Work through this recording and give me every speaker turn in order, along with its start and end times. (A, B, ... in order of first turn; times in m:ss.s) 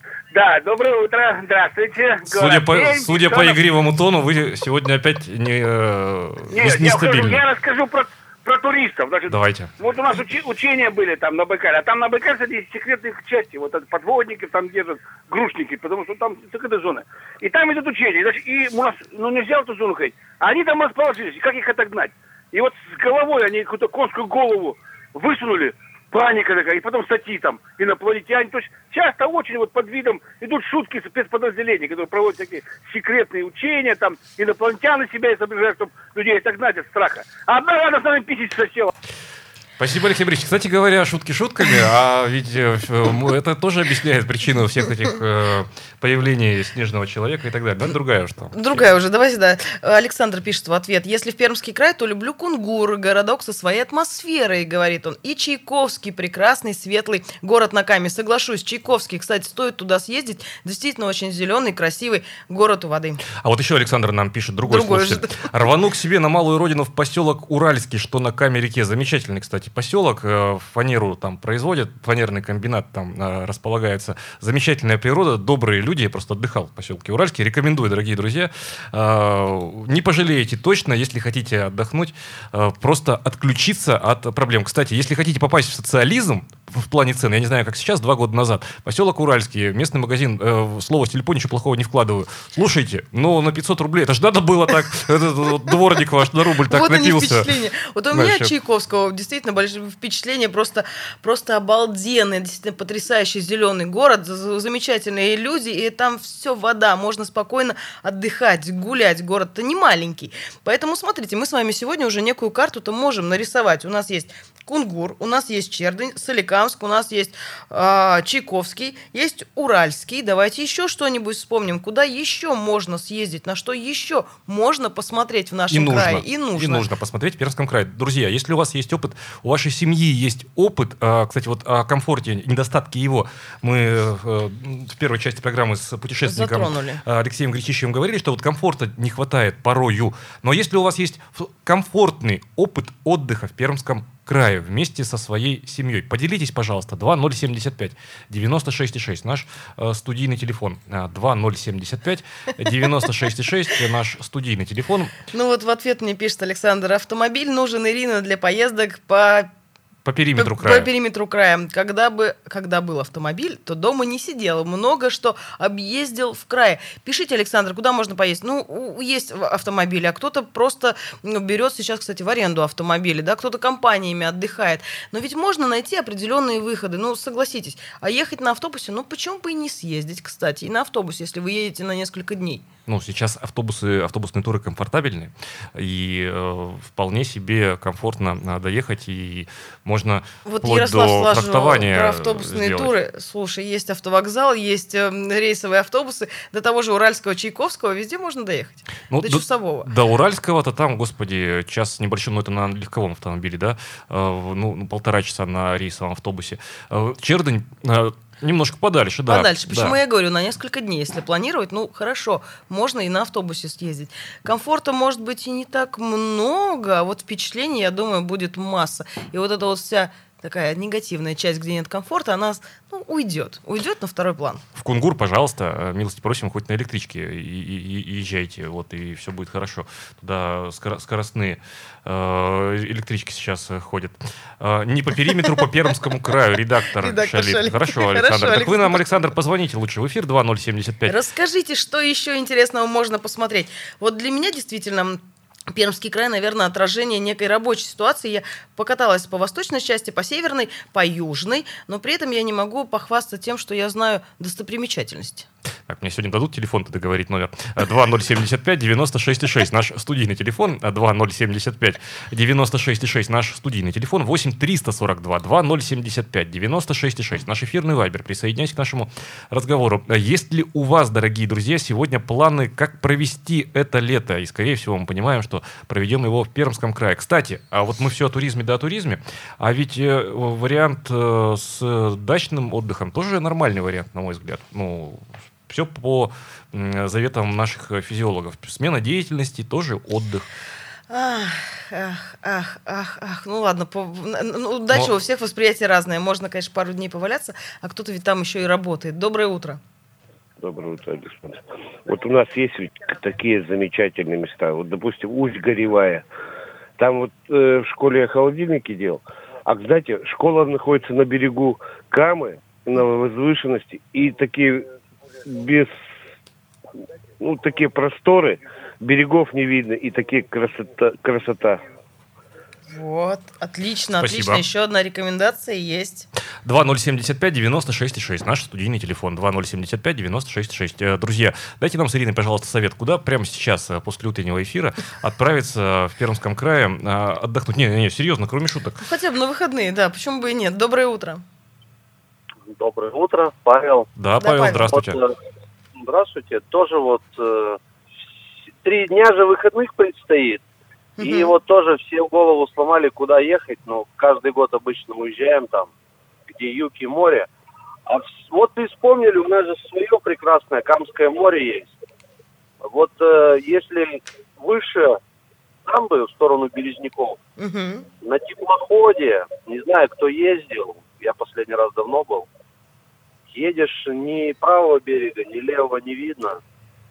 0:00.3-0:03.6 A
0:02.3-0:07.4 B
0:06.5-0:38.9 A
0:09.3-0:09.7 B
0:39.8-0:48.8 B
0:48.5-1:03.2 C
1:03.3-1:37.5 B
1:04.6-1:05.4 C
1:36.7-2:06.8 C
1:38.1-1:38.5 B
2:05.7-2:35.1 B
2:16.3-2:17.0 C
2:35.3-2:39.5 C
2:40.0-2:40.9 B
2:40.4-3:02.6 C
3:02.9-3:13.0 B
3:10.4-3:19.9 C
3:19.1-3:30.0 B
3:29.3-3:44.6 C
3:44.8-4:01.2 B
3:57.0-3:59.0 C
4:01.1-4:15.5 C
4:15.9-4:50.5 B
4:51.1-4:59.8 C
5:00.6-5:06.2 D
5:07.0-5:14.9 D
5:15.4-5:15.9 D
5:17.4-5:21.8 D
5:22.9-5:26.3 C
5:24.2-5:24.6 B
5:26.6-5:39.0 B
5:39.0-5:41.4 C
5:42.7-5:44.1 E
5:44.2-5:45.2 B
5:44.4-5:44.9 C
5:44.9-5:45.3 E
5:46.0-5:47.8 E
5:48.8-5:50.6 E
5:51.2-5:51.6 C
5:51.2-5:55.9 E
5:56.5-5:57.5 E
5:58.1-6:01.9 E
6:02.8-6:05.2 E
6:05.9-6:07.4 E
6:07.6-6:08.1 C
6:08.2-6:12.5 E
6:13.5-6:16.6 E